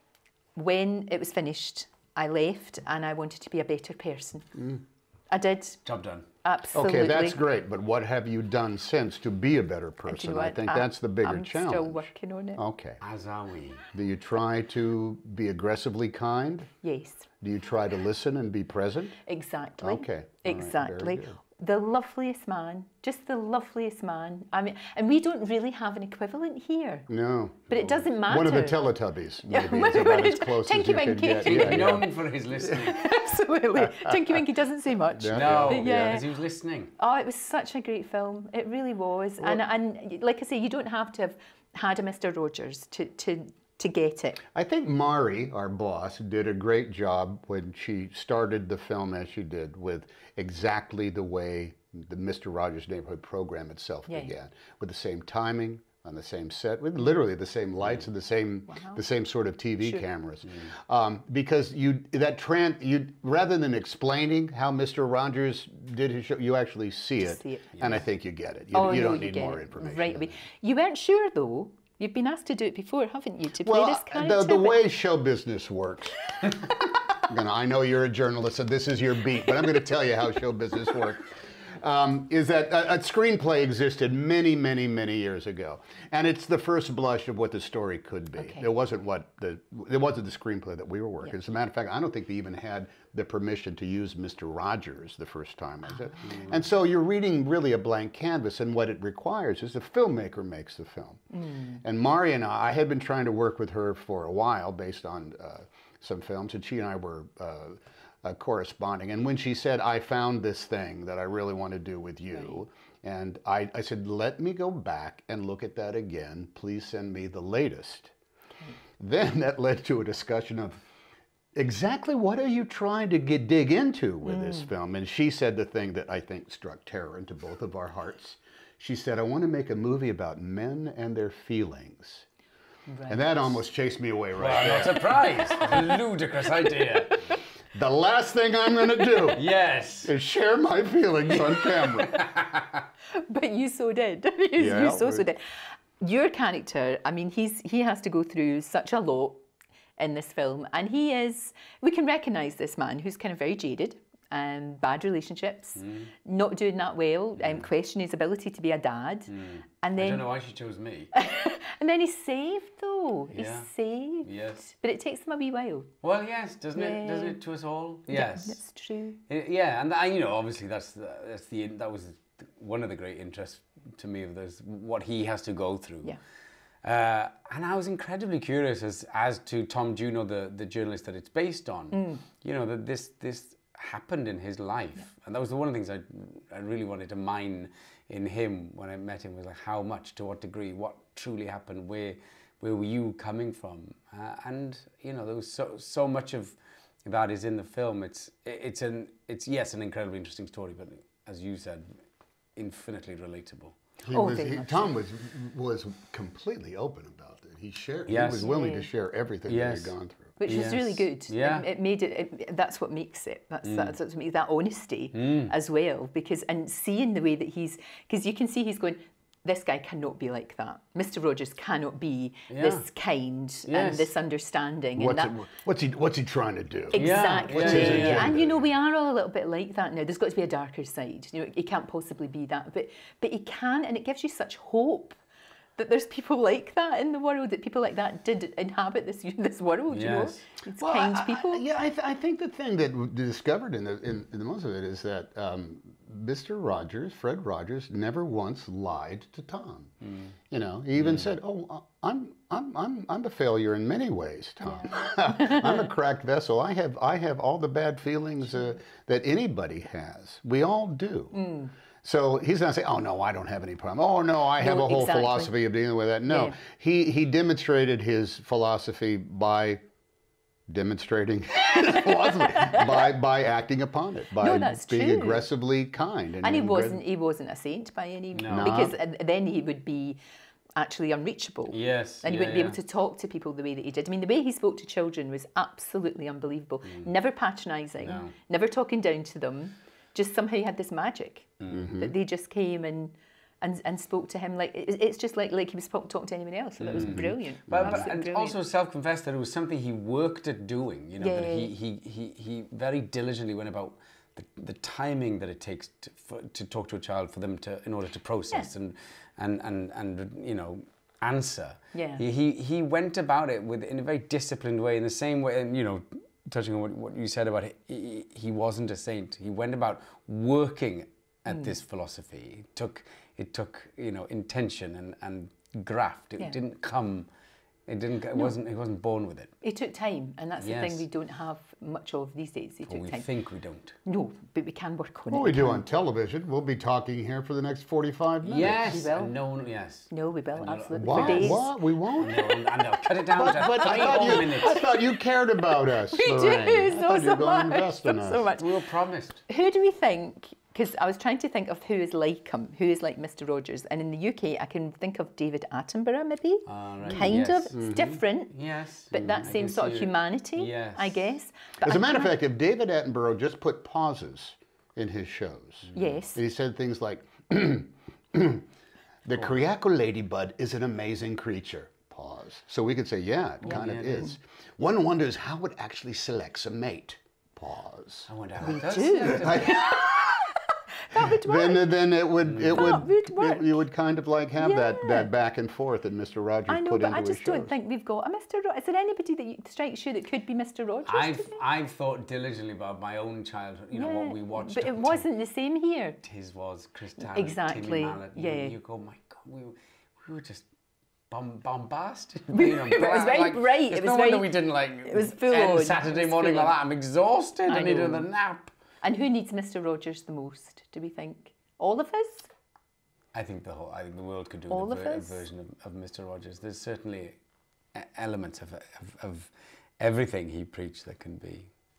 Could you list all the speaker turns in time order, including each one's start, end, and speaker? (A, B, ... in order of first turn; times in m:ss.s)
0:00.6-0:04.6 A
0:05.3-0:05.8 A
0:05.8-0:06.2 B
0:06.4-0:07.4 A
0:06.8-0:13.0 C
0:10.1-0:12.6 A
0:13.0-0:13.9 B
0:13.9-0:16.7 C
0:16.8-0:17.3 A
0:17.4-0:19.2 C
0:19.2-0:27.1 A
0:19.8-0:21.4 C
0:27.1-0:32.1 C
0:27.7-0:28.8 A
0:29.5-0:32.1 A
0:31.4-0:33.1 B
0:32.6-0:36.3 A
0:33.8-0:34.4 C
0:35.1-0:36.2 C
0:35.3-0:36.9 B
0:37.0-0:44.4 A
0:44.6-1:10.3 C
0:54.1-0:54.3 A
0:58.7-0:59.0 A
1:07.2-1:07.7 A
1:07.8-1:08.0 B
1:08.7-1:14.8 A
1:13.6-1:41.2 C
1:28.4-1:28.7 A
1:36.0-1:36.5 A
1:41.4-1:41.8 A
1:41.8-1:58.1 C
1:59.0-2:00.8 C
2:01.6-2:12.3 C
2:04.2-2:04.7 A
2:12.9-2:13.6 A
2:13.1-2:15.2 C
2:14.4-2:17.1 B
2:15.4-2:16.0 A
2:16.6-2:17.4 A
2:17.8-2:19.4 C
2:19.4-2:20.1 B
2:20.0-2:22.2 C
2:21.6-2:22.2 A
2:22.2-2:22.7 B
2:23.1-2:29.4 A
2:24.6-2:25.2 C
2:30.0-2:40.3 A
2:35.8-2:36.1 B
2:37.4-2:37.7 B
2:39.3-2:41.1 B
2:41.1-2:45.9 A
2:43.3-2:43.7 B
2:44.2-2:44.7 B
2:46.0-2:48.6 B
2:46.7-2:47.4 A
2:48.1-2:49.2 A
2:49.3-2:56.2 B
2:56.8-3:21.9 B
3:01.9-3:02.2 A
3:22.6-3:23.8 B
3:24.0-3:30.4 C
3:24.1-3:25.0 A
3:28.1-3:28.5 B
3:28.4-3:28.9 A
3:29.5-3:31.7 B
3:30.4-3:45.3 A
3:33.6-3:34.0 B
3:35.1-3:35.5 B
3:42.5-3:42.9 B
3:43.7-3:44.1 B
3:45.0-3:48.7 C
3:46.9-3:55.2 A
3:47.0-3:48.4 B
3:55.8-4:01.6 A
3:59.9-4:00.4 B
4:00.8-4:09.9 C
4:10.5-4:21.5 C
4:11.0-4:11.3 B
4:14.6-4:15.8 A
4:21.3-4:21.7 A
4:22.0-4:29.8 C
4:24.6-4:25.5 A
4:26.3-4:26.6 A
4:30.7-4:37.0 C
4:34.4-4:35.4 A
4:36.4-4:40.2 A
4:38.3-4:38.8 B
4:38.5-4:39.0 C
4:40.8-4:58.6 A
4:41.7-4:42.8 B
4:48.0-4:48.3 B
4:51.6-4:51.9 B
4:51.7-4:52.1 C
4:56.8-5:27.3 B
4:56.9-4:58.1 C
5:01.2-5:01.7 A
5:11.9-5:12.2 A
5:21.5-5:21.7 A
5:27.9-5:29.5 B
5:29.6-5:33.3 A
5:30.6-5:31.0 B
5:32.9-5:34.0 B
5:34.0-5:35.8 A
5:35.3-5:38.9 C
5:38.4-5:44.8 B
5:38.8-5:39.4 A
5:40.1-5:42.7 A
5:41.0-5:42.4 C
5:43.3-5:48.5 C
5:43.8-5:44.9 A
5:46.1-5:48.8 A
5:48.6-5:49.4 B
5:49.5-5:58.5 A
5:56.7-6:01.3 B
5:57.1-5:58.1 C
5:59.1-6:02.4 A
6:01.8-6:08.7 C
6:06.0-6:06.4 A
6:09.2-6:20.0 C
6:13.6-6:14.3 B
6:18.3-6:20.0 B
6:18.6-6:21.9 A
6:21.2-6:27.8 C
6:22.4-6:23.0 B
6:22.7-6:23.8 A
6:24.6-6:25.3 A
6:26.7-6:31.6 A
6:31.1-6:35.3 B
6:33.9-6:36.2 A
6:36.2-6:40.6 B
6:37.2-6:38.8 A
6:41.3-6:48.7 B
6:42.5-6:46.8 A
6:47.7-6:48.3 A
6:49.0-6:52.5 A
6:53.3-6:57.4 B
6:54.7-6:55.4 A
6:57.9-7:01.7 B